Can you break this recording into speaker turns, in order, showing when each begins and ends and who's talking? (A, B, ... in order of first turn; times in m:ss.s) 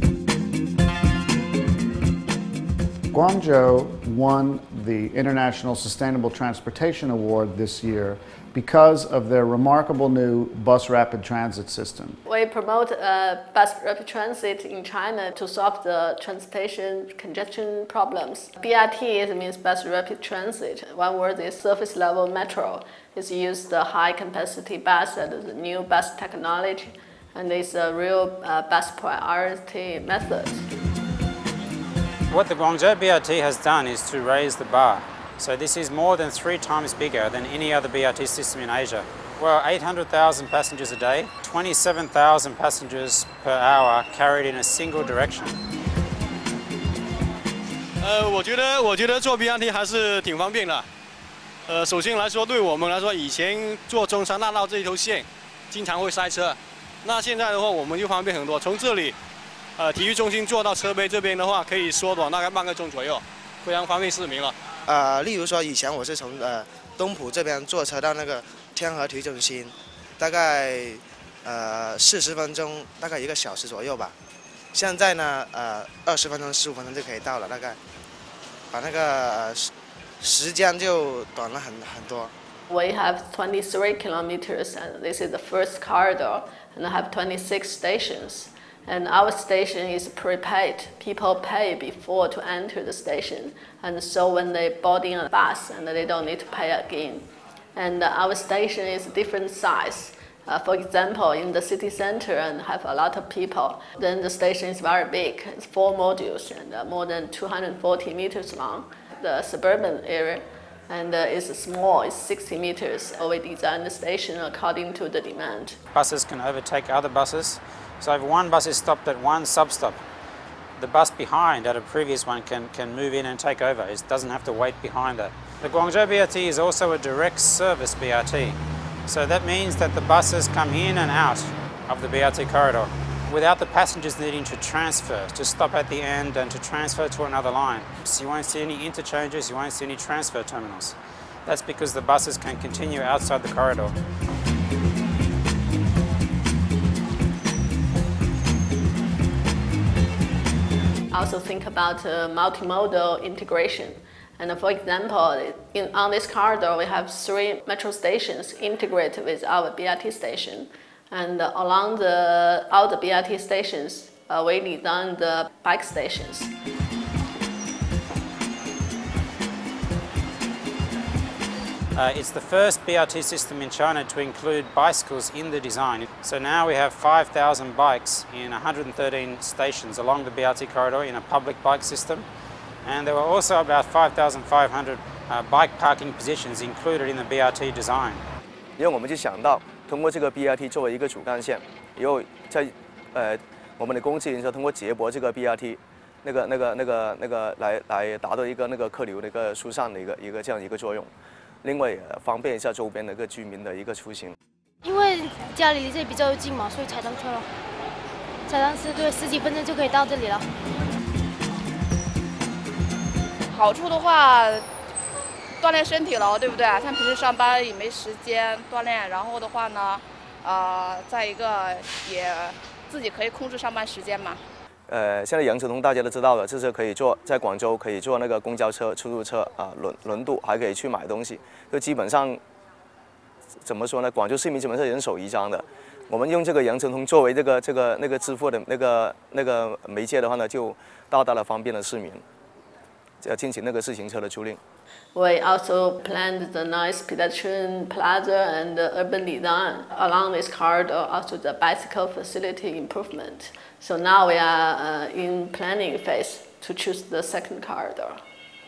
0:03.1-0:12.2 A
0:12.2-0:30.7 B
0:32.3-0:45.6 C
0:48.0-0:50.8 D
0:51.7-0:59.1 D
0:59.8-1:04.6 D
1:04.9-1:14.2 E
1:14.7-1:17.8 E
1:18.7-1:22.3 E
1:22.7-1:55.8 B
1:55.9-2:00.0 C
2:00.8-2:24.0 C
2:31.1-2:46.5 B
2:52.0-3:02.3 C
3:02.8-3:08.2 C
3:08.8-3:21.1 F
3:21.6-3:24.3 F
3:24.8-3:27.5 G
3:28.5-3:30.5 G
3:33.5-3:34.7 H
3:35.6-3:44.4 H
3:44.9-3:52.4 F
3:53.6-4:02.2 F
4:03.2-4:04.6 F
4:05.1-4:18.2 B